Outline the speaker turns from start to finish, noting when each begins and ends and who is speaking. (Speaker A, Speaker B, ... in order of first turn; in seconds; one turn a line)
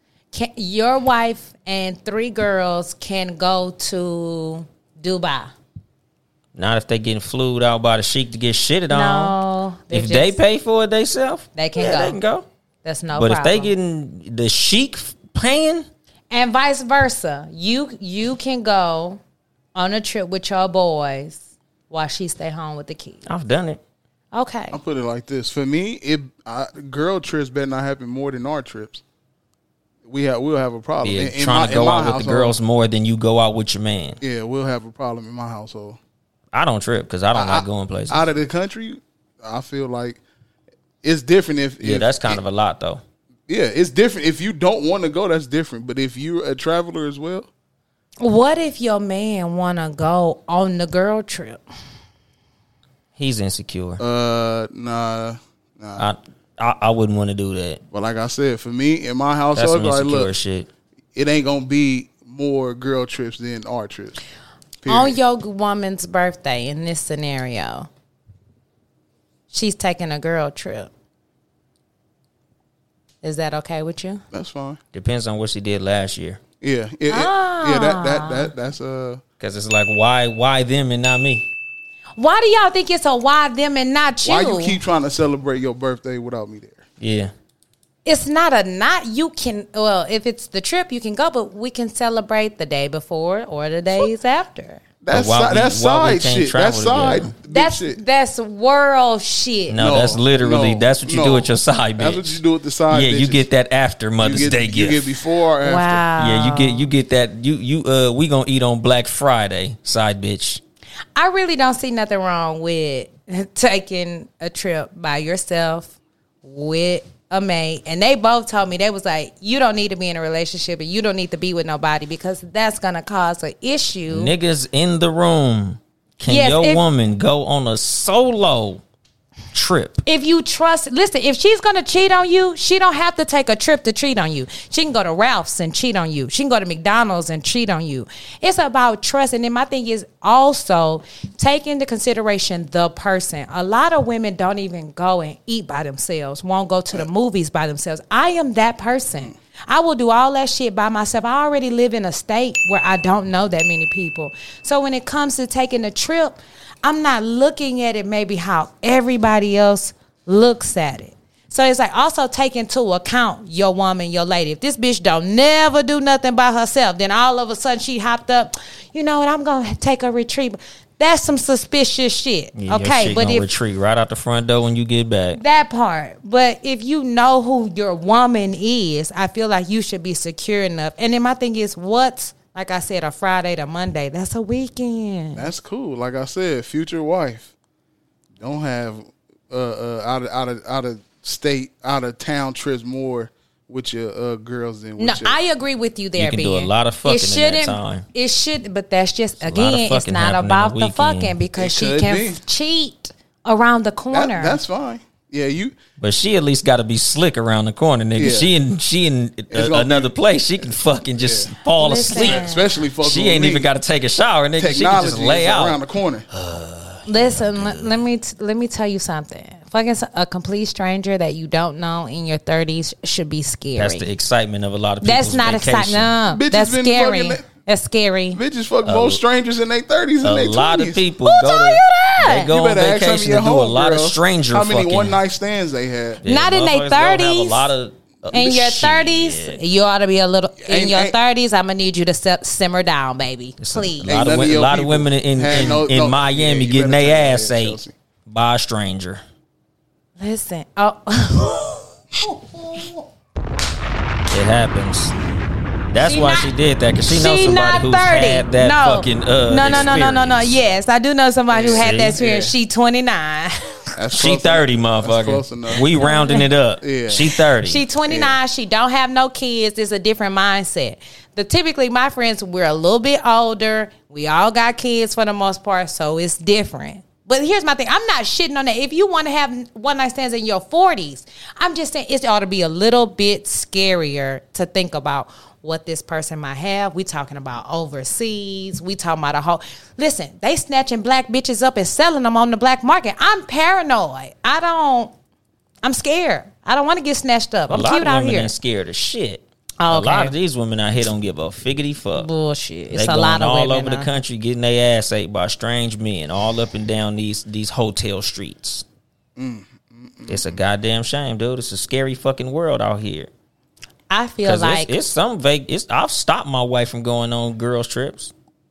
Speaker A: 0.3-5.5
Speaker B: 6.5-9.3
Speaker A: 8.9-10.4
Speaker B: 9.9-12.4
Speaker A: 11.6-12.2
Speaker A: 12.8-13.7
Speaker B: 13.1-15.9
Speaker A: 16.3-19.2
Speaker A: 19.7-23.2
Speaker B: 23.2-23.8
Speaker A: 24.3-24.8
Speaker C: 24.7-29.0
Speaker C: 30.0-32.6
Speaker B: 31.0-34.2
Speaker C: 34.2-36.0
Speaker B: 36.5-38.3
Speaker C: 37.3-40.2
Speaker C: 41.0-42.4
Speaker B: 41.8-43.0
Speaker C: 43.5-47.5
Speaker A: 48.2-51.6
Speaker B: 53.1-54.0
Speaker C: 54.0-56.1
Speaker B: 56.0-57.8
Speaker C: 57.9-60.3
Speaker B: 59.5-60.7
Speaker C: 61.1-64.2
Speaker C: 64.8-65.2
Speaker A: 64.8-67.9
Speaker A: 69.5-70.9
Speaker A: 73.2-74.2
Speaker C: 74.3-74.8
Speaker B: 74.9-76.4
Speaker C: 76.6-79.2
Speaker A: 77.1-78.5
Speaker B: 79.4-81.5
Speaker A: 82.2-84.8
Speaker C: 84.2-86.8
Speaker B: 87.0-87.3
Speaker A: 88.0-94.8
Speaker C: 95.0-98.0
Speaker B: 95.1-97.3
Speaker A: 97.5-99.8
Speaker B: 99.7-105.1
Speaker C: 99.8-103.5
Speaker C: 104.2-106.1
Speaker A: 105.6-106.9
Speaker B: 106.2-110.6
Speaker A: 111.2-124.3
Speaker B: 124.1-128.8
Speaker A: 126.2-126.8
Speaker B: 129.5-130.0
Speaker A: 130.0-173.5
Speaker B: 172.5-175.4
Speaker A: 175.3-185.5
Speaker C: 185.3-187.5
Speaker C: 188.4-195.4
Speaker A: 195.0-204.6
Speaker B: 196.2-198.1
Speaker B: 199.4-201.4
Speaker C: 201.6-202.4
Speaker C: 204.1-205.8
Speaker B: 206.0-212.5
Speaker C: 208.2-208.5
Speaker C: 209.5-210.1
Speaker C: 211.2-211.5
Speaker A: 211.7-212.7
Speaker C: 212.1-213.7
Speaker B: 213.0-218.0
Speaker C: 214.6-216.3
Speaker A: 217.1-224.1
Speaker B: 223.8-226.1
Speaker A: 225.0-228.4
Speaker C: 226.3-227.4
Speaker C: 228.3-231.0
Speaker B: 228.8-229.2
Speaker B: 230.2-235.2
Speaker A: 231.2-232.5
Speaker C: 232.4-236.2
Speaker B: 236.2-239.6
Speaker A: 236.2-237.7
Speaker A: 238.3-244.1
Speaker C: 240.6-241.2
Speaker B: 243.6-249.2
Speaker C: 244.0-247.9
Speaker A: 250.2-253.0
Speaker B: 254.3-255.1
Speaker B: 255.9-260.5
Speaker A: 256.0-256.5
Speaker A: 257.1-263.6
Speaker C: 259.7-260.0
Speaker C: 261.5-262.5
Speaker B: 261.7-262.2
Speaker C: 264.0-265.9
Speaker B: 264.1-267.8
Speaker A: 265.9-266.4
Speaker C: 266.8-267.3
Speaker A: 267.6-295.1
Speaker C: 268.1-268.4
Speaker A: 295.8-298.5
Speaker B: 297.7-302.3
Speaker A: 299.8-300.3
Speaker A: 302.1-304.1
Speaker B: 302.9-308.8
Speaker C: 309.4-310.5
Speaker B: 310.3-313.3
Speaker A: 314.1-315.0
Speaker B: 314.4-318.3